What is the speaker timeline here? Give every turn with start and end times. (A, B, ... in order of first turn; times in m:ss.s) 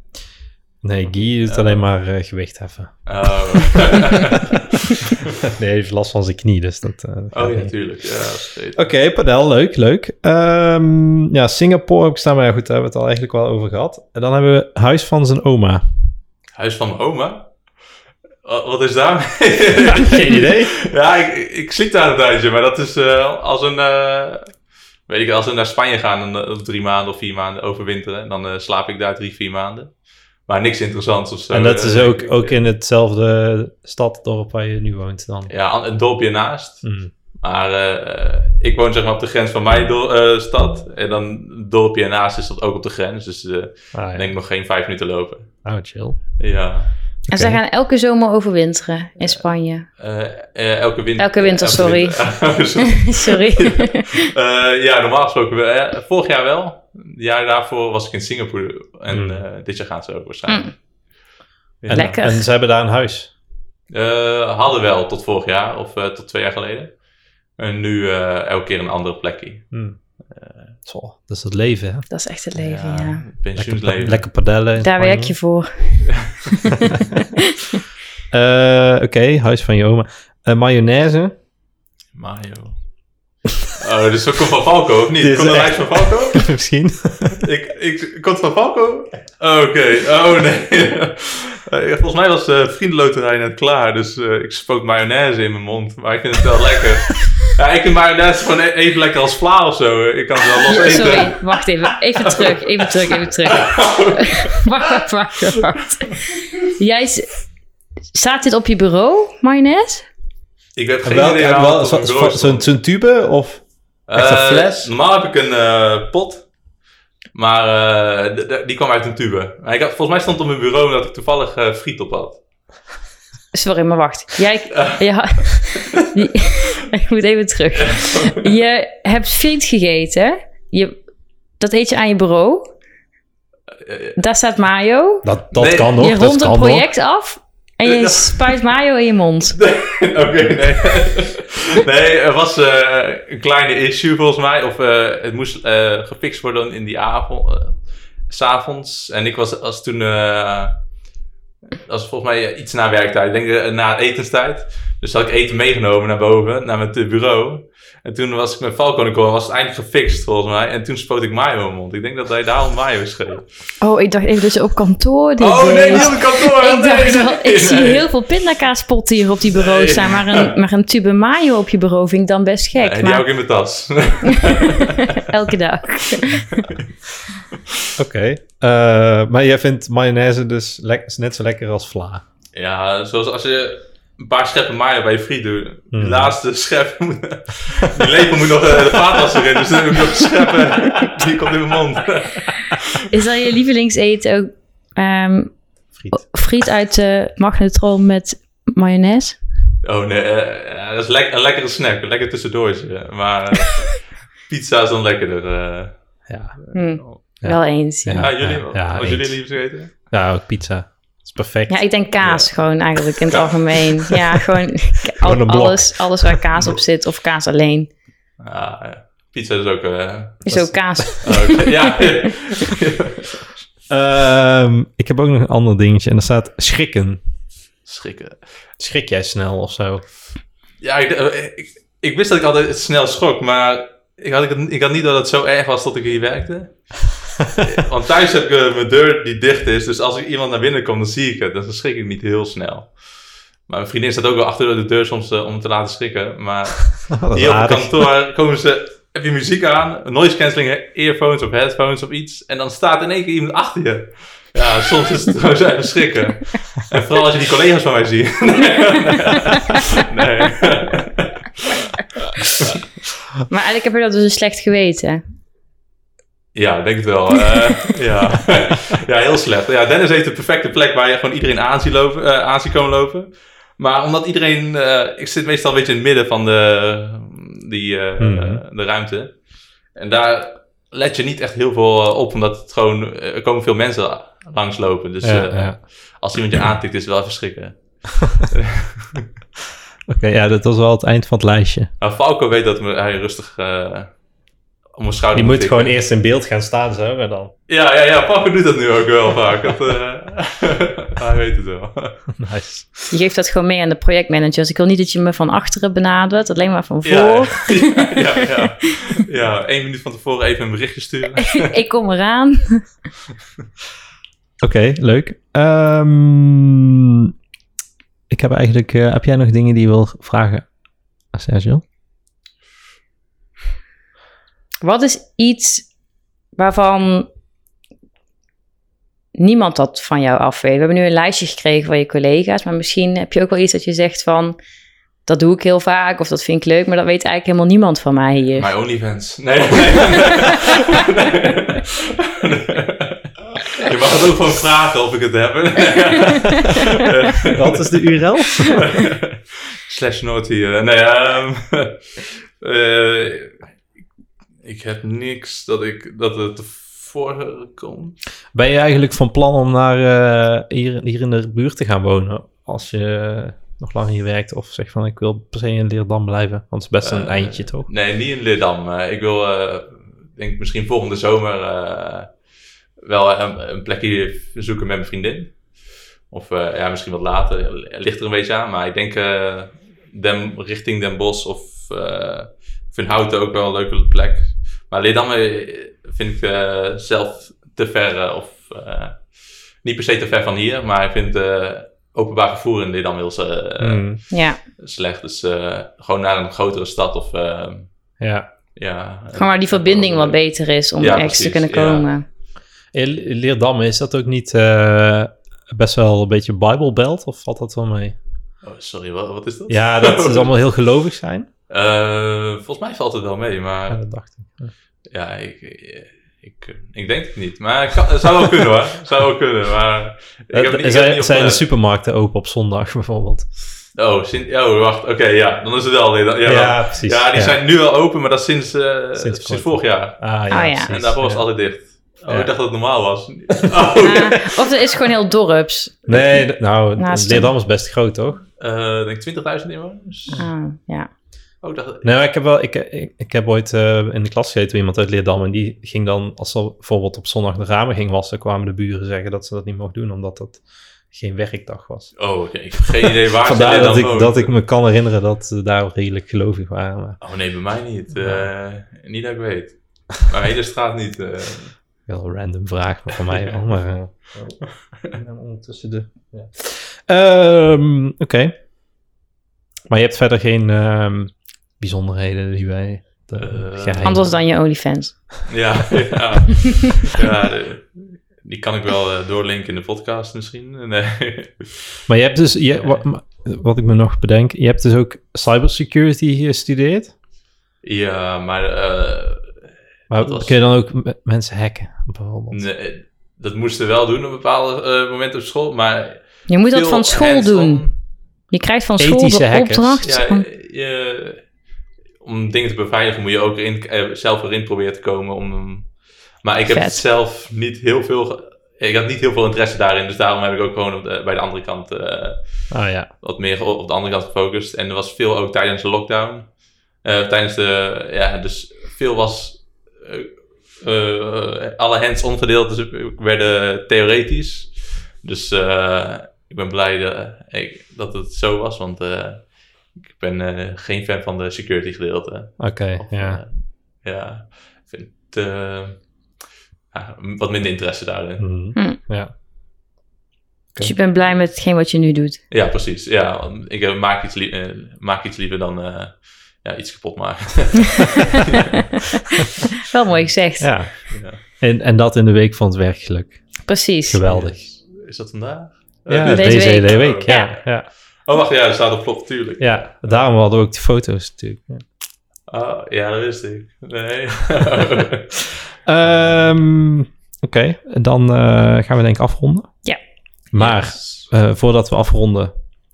0:00.8-0:03.0 A
0:01.4-0:01.8 B
0:03.0-0:05.2 B
0:03.6-0:04.9 A
0:05.4-0:07.7 A
0:07.3-0:08.9 B
0:08.8-0:15.8 A
0:16.6-0:17.5 B
0:18.4-0:24.5 B
0:19.8-0:20.7 A
0:25.1-0:29.9 B
0:30.5-0:32.6 B
0:31.5-0:35.5 A
0:35.5-0:36.8 B
0:36.8-0:37.1 A
0:37.4-0:45.5 B
0:43.9-0:44.3 A
0:45.6-0:46.2 A
0:46.4-0:46.9 B
0:47.3-0:49.9 C
0:47.3-0:47.6 A
0:50.0-1:00.7 B
0:51.2-0:54.3 C
0:59.1-0:59.4 A
1:01.8-1:02.2 B
1:01.9-1:03.3 A
1:01.9-1:02.4 C
1:03.9-1:06.9 B
1:07.6-1:09.7 B
1:09.7-1:10.0 A
1:10.2-1:10.7 B
1:10.8-1:12.1 A
1:12.1-1:13.2 C
1:12.6-1:14.3 B
1:13.6-1:15.4 A
1:14.8-1:17.8 C
1:16.1-1:16.6 B
1:18.3-1:21.3 A
1:22.1-1:22.8 B
1:23.8-1:26.5 B
1:25.2-1:27.4 A
1:27.3-1:41.6 B
1:40.6-1:47.3 C
1:42.2-1:45.0 B
1:48.1-1:50.1 C
1:50.8-1:52.7 B
1:51.0-1:54.9 A
1:54.1-1:56.5 B
1:57.3-2:02.4 B
2:03.5-2:10.9 C
2:04.7-2:06.0 B
2:07.8-2:08.5 B
2:11.6-2:12.7 C
2:13.8-2:14.2 B
2:14.2-2:15.3 C
2:15.2-2:16.9 A
2:15.5-2:16.0 B
2:15.8-2:19.6 C
2:17.8-2:18.6 B
2:19.5-2:27.8 B
2:28.3-2:30.7 B
2:31.9-2:43.5 B
2:43.8-2:53.2 C
2:45.4-2:48.0 B
2:49.5-2:50.5 B
2:52.8-2:55.2 B
2:54.4-2:56.6 C
2:56.4-2:56.8 B
2:58.0-3:02.2 A
3:02.5-3:13.0 B
3:05.9-3:06.3 A
3:13.1-3:15.6 C
3:16.1-3:19.4 C
3:19.8-3:26.0 B
3:26.3-3:26.5 A
3:26.6-3:27.2 B
3:26.7-3:28.3 C
3:27.4-3:29.4 A
3:28.2-3:29.9 B
3:30.0-3:31.8 A
3:31.7-3:37.9 C
3:32.2-3:32.5 B
3:35.2-3:36.8 A
3:38.4-3:40.5 B
3:40.4-3:41.3 A
3:40.4-3:42.3 C
3:41.2-3:43.4 B
3:43.9-3:47.2 A
3:47.8-3:48.4 B
3:48.8-3:50.0 A
3:50.8-4:02.9 B
4:03.7-4:21.8 B
4:07.1-4:08.0 A
4:19.5-4:20.0 C
4:23.5-4:25.2 C
4:26.5-4:39.4 B
4:38.2-4:38.6 A
4:39.9-4:49.3 B
4:45.2-4:45.8 A
4:50.1-4:51.9 A
4:52.0-4:54.1 B
4:55.0-4:55.9 B
4:55.3-4:57.5 A
4:57.7-5:02.2 B
5:02.3-5:03.1 A
5:03.1-5:08.9 C
5:07.0-5:11.7 B
5:11.5-5:12.9 C
5:14.6-5:17.3 A
5:18.3-5:20.6 A
5:21.3-5:21.8 A
5:24.8-5:25.9 C
5:26.6-5:27.3 C
5:29.3-5:34.6 C
5:35.2-5:38.7 C
5:38.6-5:48.1 B
5:47.5-5:48.8 A
5:48.6-5:53.6 B
5:54.6-5:58.2 B
5:58.5-6:07.9 A
6:07.0-6:12.3 B
6:13.0-6:15.6 B
6:16.3-6:29.3 B
6:29.8-6:37.9 B
6:33.8-6:34.2 A
6:34.3-6:34.6 C
6:38.2-6:38.4 A
6:38.8-6:40.4 B
6:39.4-6:42.2 C
6:41.0-6:42.1 B
6:42.9-6:48.2 A
6:48.6-6:50.5 B
6:49.7-6:51.5 A
6:51.7-6:54.0 B
6:53.9-6:54.7 A
6:55.1-7:01.6 B
7:00.5-7:03.4 A
7:04.0-7:10.4 B
7:06.4-7:07.6 A
7:09.2-7:11.5 A
7:10.5-7:10.9 C
7:10.9-7:14.5 B
7:14.0-7:16.4 C
7:16.1-7:18.4 A
7:17.0-7:17.5 C
7:18.6-7:20.5 B
7:20.3-7:21.1 C
7:21.6-7:22.1 B
7:22.0-7:32.2 A
7:32.2-7:34.5 B
7:32.8-7:37.2 A
7:37.2-7:41.7 B
7:38.1-7:38.5 A
7:42.1-7:48.5 A
7:43.3-7:43.6 B
7:49.9-7:54.2 A
7:53.4-7:54.3 B
7:54.0-7:55.2 C
7:55.5-8:01.9 B
8:02.1-8:07.1 A
8:02.7-8:03.0 B
8:07.8-8:09.6 B
8:10.1-8:12.6 A
8:10.1-8:10.5 B
8:12.5-8:17.9 B
8:16.5-8:17.8 C
8:18.5-8:20.4 C
8:19.0-8:20.1 A
8:20.0-8:21.4 B
8:22.2-8:25.9 B
8:26.4-8:32.7 B
8:26.7-8:27.0 C
8:32.7-8:33.1 A
8:33.2-8:36.5 B
8:37.0-8:56.2 B
8:52.6-8:53.4 A
8:56.9-8:58.4 B
8:58.4-8:59.3 A
9:00.8-9:02.4 C
9:02.5-9:08.9 B
9:09.8-9:10.7 C
9:10.6-9:13.4 A
9:11.1-9:11.4 B
9:13.7-9:14.2 C
9:14.1-9:14.6 A
9:14.2-9:20.0 B
9:16.1-9:17.9 A
9:16.3-9:17.5 C
9:19.6-9:21.8 A
9:22.5-9:25.5 B
9:25.8-9:29.7 A
9:30.5-9:32.5 A
9:30.5-9:31.3 B